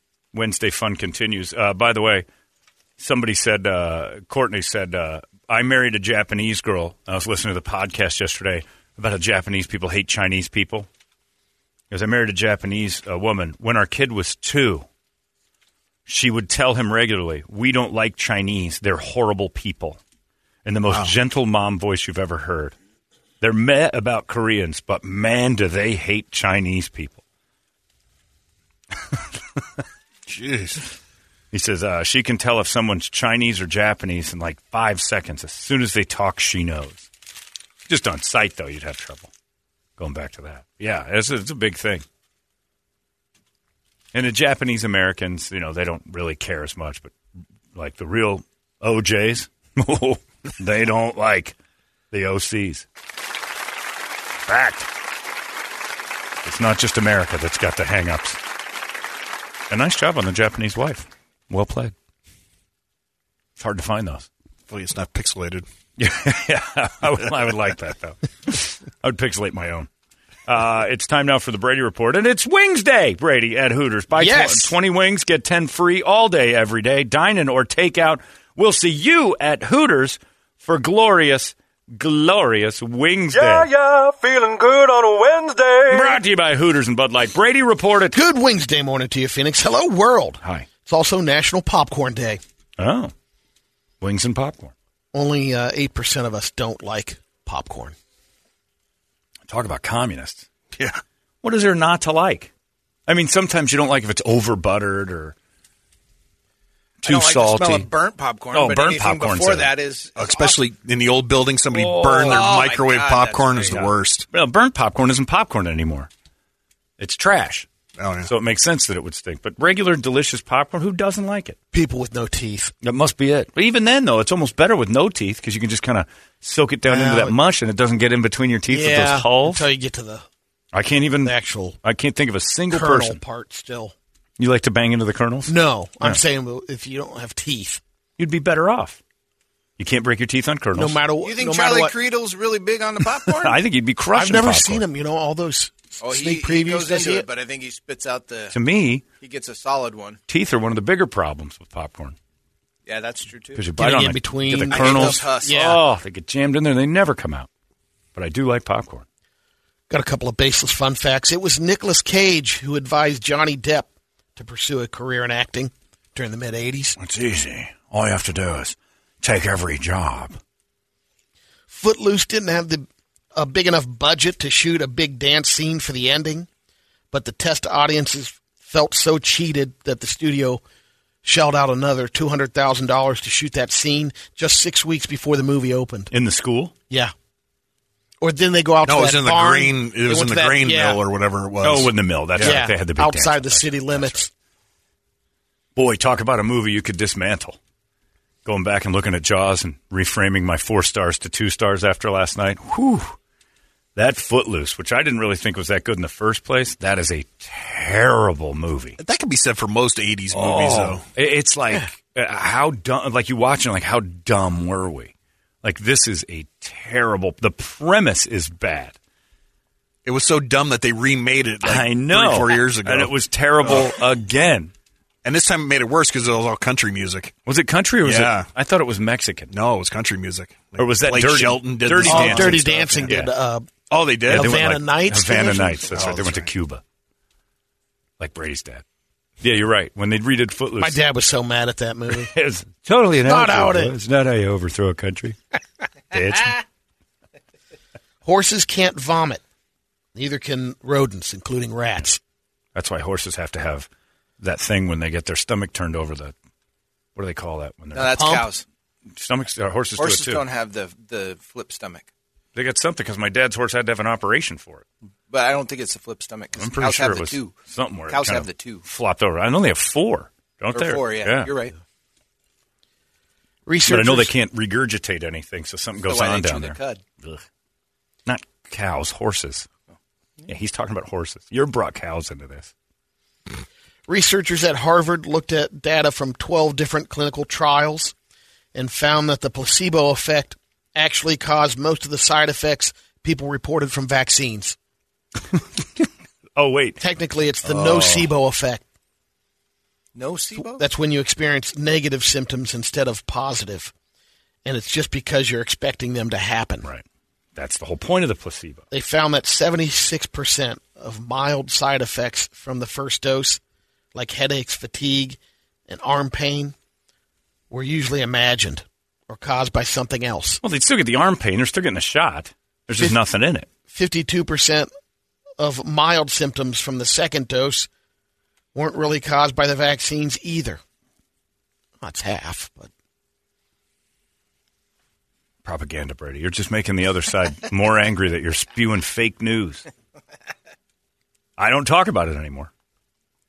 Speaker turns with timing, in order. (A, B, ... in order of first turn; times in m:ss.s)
0:00.3-0:02.3 A
0:03.0-0:10.9 A
0:11.9-0:14.9 A
0:16.1-0:20.0 A
0:20.6-0:22.8 A
0:23.4-0:27.2 A
0:30.3-0:30.8 B
0:31.5-0:37.1 A
0:37.9-0:39.3 A
0:40.0-0:42.0 A
0:44.1-0:47.1 A
0:47.7-0:51.6 A
0:52.1-0:52.9 A
0:54.5-0:54.9 A
0:56.4-0:58.4 A
0:59.7-1:01.9 A
1:03.6-1:04.3 A
1:04.7-1:05.6 B
1:06.0-1:09.9 A
1:10.5-1:23.7 A
1:14.2-1:14.7 C
1:23.3-1:26.2 D
1:25.9-1:28.2 A
1:28.1-1:32.4 C
1:32.8-1:33.1 A
1:34.0-1:34.7 A
1:35.1-1:38.0 C
1:39.5-1:40.5 A
1:40.8-1:41.0 B
1:41.4-1:42.5 A
1:43.1-1:45.4 A
1:47.0-1:47.9 A
1:47.0-1:50.6 E
1:48.5-1:49.7 A
1:50.2-1:54.3 B
1:51.7-1:52.5 A
1:52.2-1:53.8 E
1:53.7-1:56.1 A
1:57.0-1:57.7 A
1:58.0-1:58.3 B
1:58.3-2:01.6 A
2:01.7-2:02.7 C
2:02.8-2:09.6 A
2:06.9-2:07.4 C
2:08.7-2:10.2 C
2:10.7-2:13.2 A
2:11.2-2:11.8 C
2:12.7-2:13.9 C
2:14.4-2:16.2 A
2:15.5-2:17.8 C
2:18.2-2:19.0 A
2:19.8-2:21.0 A
2:20.8-2:21.9 C
2:21.2-2:23.6 E
2:23.3-2:24.8 A
2:24.2-2:27.3 C
2:26.0-2:28.6 E
2:28.5-2:29.0 A
2:29.2-2:30.2 E
2:30.3-2:32.2 A
2:32.9-2:33.6 E
2:33.6-2:37.5 A
2:33.8-2:35.8 C
2:34.7-2:35.6 E
2:38.2-2:39.0 A
2:39.9-2:47.0 C
2:47.0-2:50.4 A
2:51.7-2:56.5 C
2:57.1-3:00.6 C
3:01.2-3:06.1 C
3:06.1-3:06.7 A
3:08.2-3:11.0 C
3:08.8-3:12.7 B
3:11.6-3:14.2 A
3:12.4-3:14.3 C
3:15.8-3:17.6 A
3:18.4-3:23.2 A
3:24.0-3:29.0 A
3:29.0-3:31.0 B
3:30.3-3:39.0 A
3:40.1-3:44.0 B
3:41.6-3:44.7 A
3:45.2-3:47.3 B
3:47.5-3:49.5 A
3:48.0-3:48.5 B
3:49.5-3:53.2 B
3:50.8-3:53.3 A
3:52.0-3:53.7 C
3:53.9-3:54.7 B
3:54.3-3:56.3 C
3:54.3-3:56.8 A
3:55.9-3:56.4 B
3:58.2-3:58.8 A
3:59.4-4:01.0 A
4:00.8-4:02.3 C
4:02.1-4:05.4 A
4:03.2-4:03.9 C
4:06.1-4:06.6 A
4:08.2-4:09.4 C
4:10.2-4:12.2 C
4:12.8-4:13.9 A
4:14.4-4:16.3 A
4:17.2-4:18.3 A
4:17.9-4:18.6 E
4:18.1-4:18.5 C
4:19.2-4:20.4 A
4:20.0-4:22.1 E
4:22.6-4:24.9 A
4:25.3-4:27.6 E
4:26.6-4:31.5 A
4:28.1-4:28.8 E
4:30.7-4:31.8 E
4:33.7-4:34.3 C
4:33.9-4:37.4 A
4:36.0-4:37.0 E
4:38.3-4:39.7 A
4:40.5-4:42.7 A
4:44.1-4:48.1 C
4:48.7-4:54.8 C
4:56.6-4:57.0 A
4:57.0-4:58.8 C
4:57.6-4:58.2 A
5:00.2-5:00.8 E
5:00.6-5:03.9 C
5:04.6-5:06.9 C
5:07.6-5:08.9 A
5:08.9-5:13.6 C
5:14.2-5:16.8 C
5:17.7-5:20.6 C
5:20.6-5:23.7 A
5:23.9-5:24.9 C
5:25.6-5:27.9 C
5:28.7-5:30.8 C
5:32.0-5:32.9 C
5:35.6-5:39.9 A
5:41.6-5:42.7 A